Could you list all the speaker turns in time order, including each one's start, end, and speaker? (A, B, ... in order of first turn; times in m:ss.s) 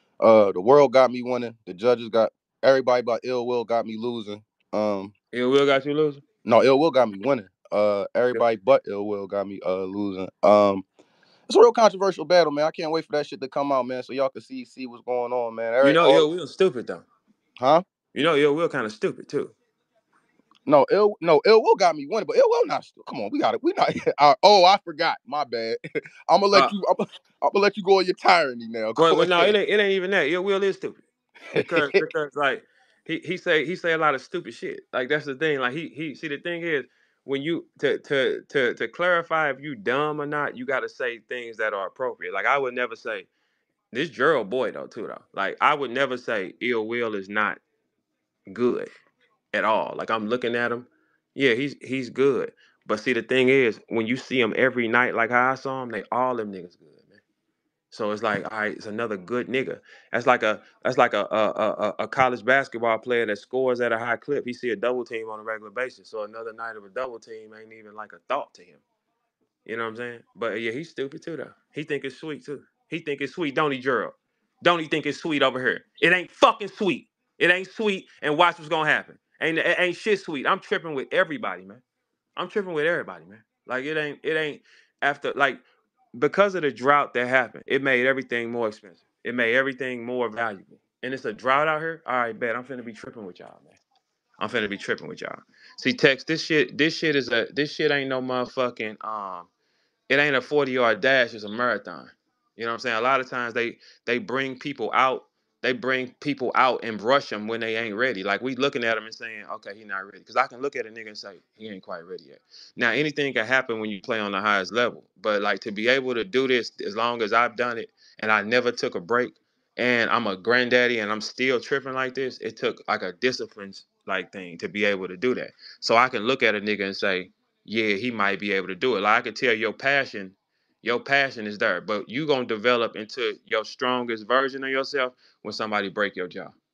0:00.2-0:05.1 A
0:05.3-0:06.2 B
0:06.4-0:10.8 A
0:11.5-0:16.3 A
0:15.8-0:17.1 B
0:18.1-0:19.5 B
0:20.7-0:29.6 A
0:29.0-0:31.0 B
0:31.5-0:32.0 A
0:31.6-0:43.3 B
0:43.9-0:47.6 B
0:48.5-0:48.9 B
0:49.5-0:57.2 B
0:57.9-1:08.8 B
1:09.7-1:21.8 B
1:22.4-1:33.8 B
1:34.4-1:39.5 B
1:40.1-2:16.6 B